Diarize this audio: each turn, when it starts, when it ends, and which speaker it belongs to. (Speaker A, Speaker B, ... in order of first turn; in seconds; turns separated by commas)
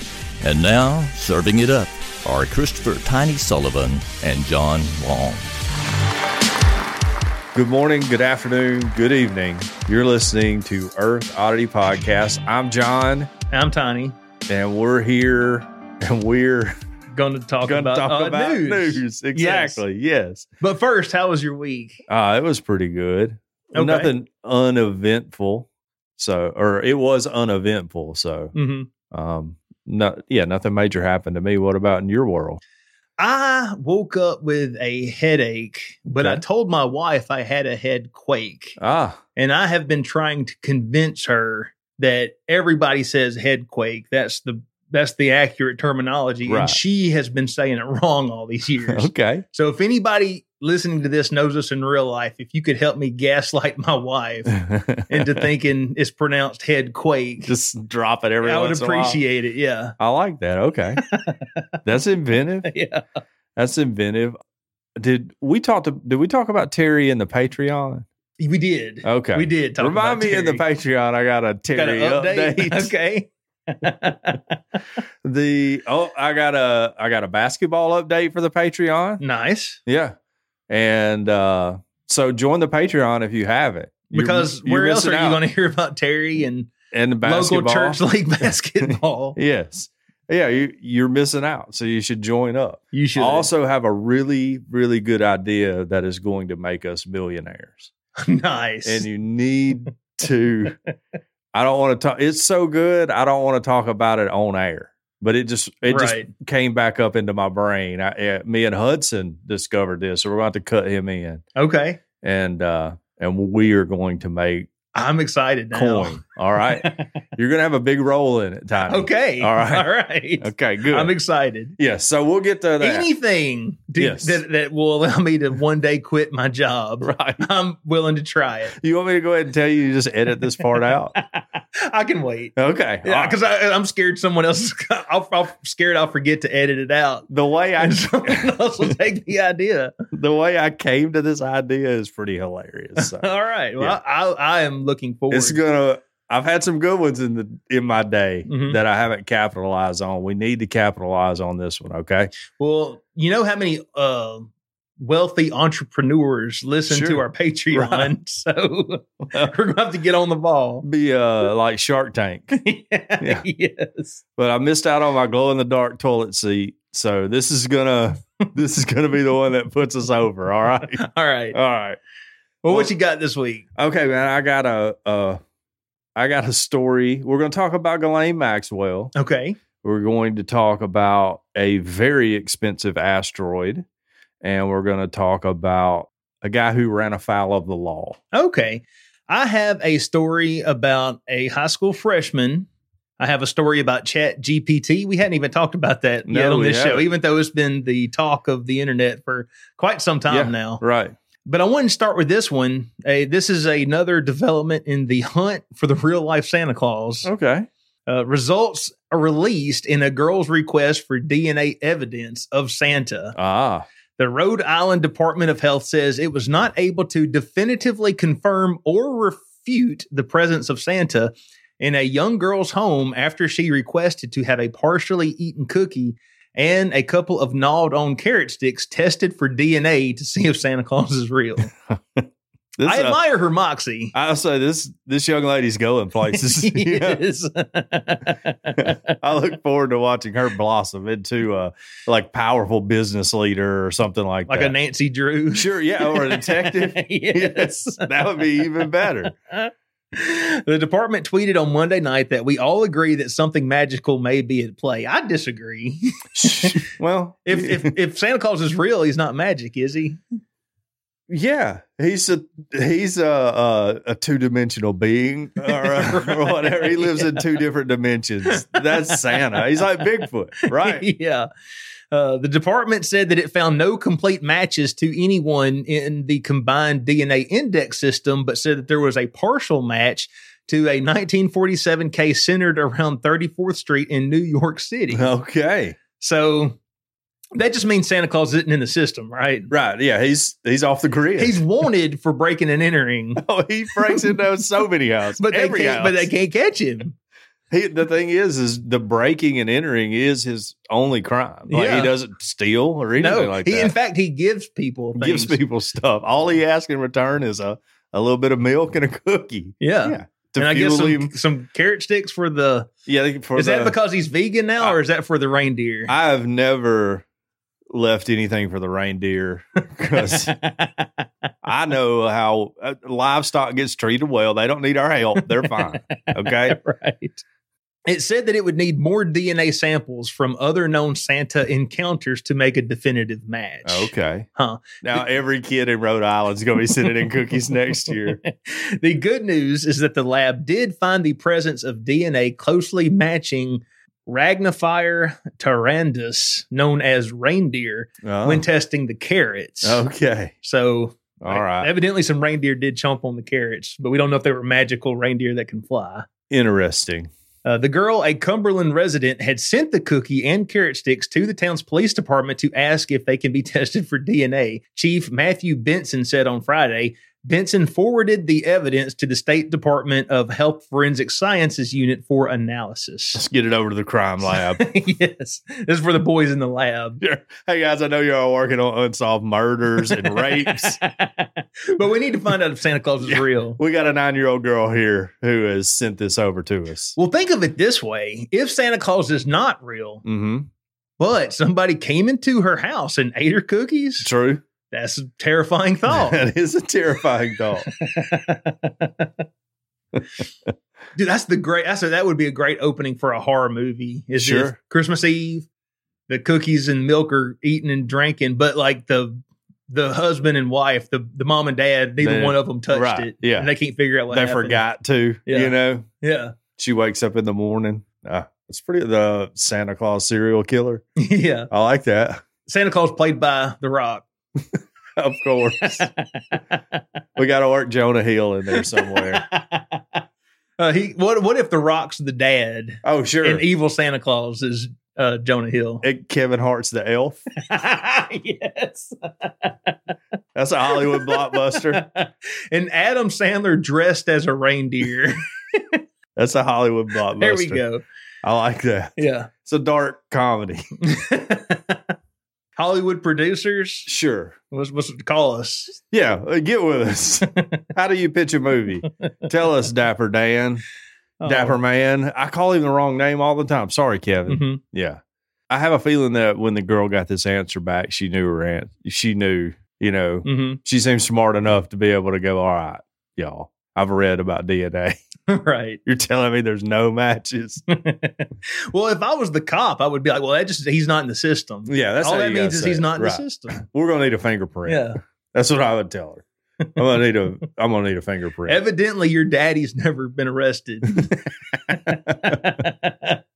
Speaker A: 0.4-5.5, Speaker B: 7.5-13.3, Speaker C: 13.5-14.2, Speaker B: 14.5-16.7, Speaker C: 17.1-19.8, Speaker B: 17.6-20.5, Speaker C: 20.6-22.0, Speaker B: 22.1-28.5, Speaker C: 23.7-24.1, Speaker C: 28.5-28.9, Speaker B: 29.1-32.6, Speaker C: 33.2-38.8, Speaker B: 36.2-36.4, Speaker B: 38.8-39.2, Speaker C: 39.4-57.5, Speaker B: 46.5-46.8, Speaker B: 48.9-49.5, Speaker B: 54.5-55.5, Speaker B: 57.5-59.2, Speaker C: 58.4-60.0, Speaker B: 60.0-61.0, Speaker C: 61.0-61.5, Speaker B: 61.9-62.7, Speaker C: 62.6-63.0, Speaker B: 63.5-64.4, Speaker B: 65.0-68.1, Speaker C: 68.4-70.6, Speaker B: 69.0-72.9, Speaker C: 71.7-74.8, Speaker B: 75.2-79.2, Speaker C: 79.2-79.8, Speaker B: 79.8-80.2, Speaker B: 80.7-85.4, Speaker C: 84.1-89.4, Speaker B: 86.9-88.0, Speaker B: 89.3-97.9, Speaker C: 92.9-93.5, Speaker C: 98.2-99.1, Speaker B: 98.8-100.8, Speaker B: 101.5-111.4, Speaker C: 105.8-106.3, Speaker C: 111.6-112.0, Speaker B: 112.2-114.7, Speaker C: 114.9-117.0, Speaker B: 115.7-119.9, Speaker C: 118.9-121.8, Speaker B: 120.4-121.1, Speaker B: 121.8-123.1, Speaker C: 122.8-128.8, Speaker B: 124.0-124.4, Speaker B: 127.0-127.5, Speaker B: 128.8-131.1, Speaker C: 130.6-137.3, Speaker B: 132.6-133.4, Speaker B: 137.3-138.9, Speaker C: 137.8-139.9, Speaker B: 140.1-144.0, Speaker C: 143.0-145.6, Speaker B: 145.3-152.3, Speaker C: 148.5-148.8, Speaker C: 152.6-160.8, Speaker B: 156.9-158.1, Speaker B: 160.8-162.6, Speaker C: 162.5-164.2, Speaker B: 163.2-163.4, Speaker B: 164.4-172.0, Speaker C: 170.9-171.6, Speaker C: 172.6-173.6, Speaker B: 173.8-175.4, Speaker B: 176.2-179.1, Speaker C: 179.1-179.6, Speaker B: 179.8-183.8, Speaker B: 184.4-188.2, Speaker C: 188.3-192.7, Speaker C: 193.2-200.8, Speaker B: 196.2-197.1, Speaker B: 200.3-201.1, Speaker C: 201.4-207.3, Speaker B: 207.2-207.7, Speaker C: 208.1-213.3, Speaker B: 213.3-213.9, Speaker C: 214.2-231.7, Speaker B: 231.9-233.2, Speaker C: 232.8-234.1, Speaker B: 234.1-237.2, Speaker C: 236.2-239.0, Speaker B: 238.8-244.8, Speaker C: 244.5-248.4, Speaker B: 245.5-249.3, Speaker C: 249.5-256.8, Speaker B: 256.3-257.9, Speaker C: 257.4-260.2, Speaker B: 261.3-271.1, Speaker C: 265.6-267.5, Speaker C: 268.5-269.5, Speaker C: 270.6-271.5, Speaker C: 272.1-285.3, Speaker B: 285.1-286.0, Speaker C: 286.2-286.8, Speaker C: 287.6-289.7, Speaker B: 289.7-291.6, Speaker C: 291.4-293.4, Speaker B: 293.4-296.3, Speaker C: 294.0-294.4, Speaker C: 295.4-297.1, Speaker B: 297.7-303.9, Speaker C: 301.7-302.1, Speaker C: 303.2-305.6, Speaker B: 305.1-311.3, Speaker C: 309.8-312.9, Speaker B: 313.1-313.9, Speaker C: 313.6-316.1, Speaker B: 316.1-317.2, Speaker B: 317.9-320.6, Speaker C: 320.1-321.2, Speaker B: 321.6-326.8, Speaker C: 325.4-327.4, Speaker C: 328.1-335.3, Speaker B: 333.8-334.5, Speaker B: 335.0-338.4, Speaker C: 338.1-350.0, Speaker B: 348.2-348.7, Speaker B: 349.8-350.5, Speaker C: 350.6-356.3, Speaker B: 351.4-351.9, Speaker B: 356.5-357.3, Speaker C: 357.6-373.4, Speaker B: 373.4-374.8, Speaker C: 374.5-377.2, Speaker B: 377.2-381.0, Speaker C: 380.0-383.8, Speaker B: 383.2-387.1, Speaker C: 387.1-390.2, Speaker B: 390.2-390.7, Speaker C: 391.2-394.3, Speaker B: 394.2-394.6, Speaker C: 394.9-396.4, Speaker B: 396.1-397.9, Speaker C: 397.9-399.3, Speaker C: 401.1-405.7, Speaker B: 404.4-404.8, Speaker C: 406.3-414.8, Speaker B: 412.2-413.7, Speaker B: 414.3-416.1, Speaker C: 415.5-416.6, Speaker B: 416.8-421.1, Speaker C: 421.2-421.7, Speaker B: 421.7-422.4, Speaker C: 422.6-424.2, Speaker B: 424.7-426.1, Speaker C: 425.8-426.8, Speaker B: 427.4-429.4, Speaker C: 428.7-430.2, Speaker C: 430.8-436.0, Speaker B: 433.0-433.6, Speaker B: 436.0-437.4, Speaker C: 437.6-439.9, Speaker B: 440.6-442.1, Speaker C: 440.9-446.0, Speaker B: 446.4-447.8, Speaker C: 447.4-448.0, Speaker B: 448.4-450.9, Speaker C: 449.2-449.5, Speaker C: 451.0-452.0, Speaker C: 452.8-454.1, Speaker B: 454.1-454.6, Speaker C: 454.7-456.0, Speaker B: 456.1-460.8, Speaker C: 461.4-461.8, Speaker B: 461.4-475.2, Speaker C: 464.5-464.8, Speaker C: 470.4-470.8, Speaker C: 475.5-476.0, Speaker B: 476.1-477.8, Speaker C: 477.9-483.8, Speaker B: 481.9-486.4, Speaker C: 484.9-485.2, Speaker B: 486.9-488.8, Speaker C: 488.7-491.4, Speaker B: 491.7-492.7, Speaker C: 491.9-493.4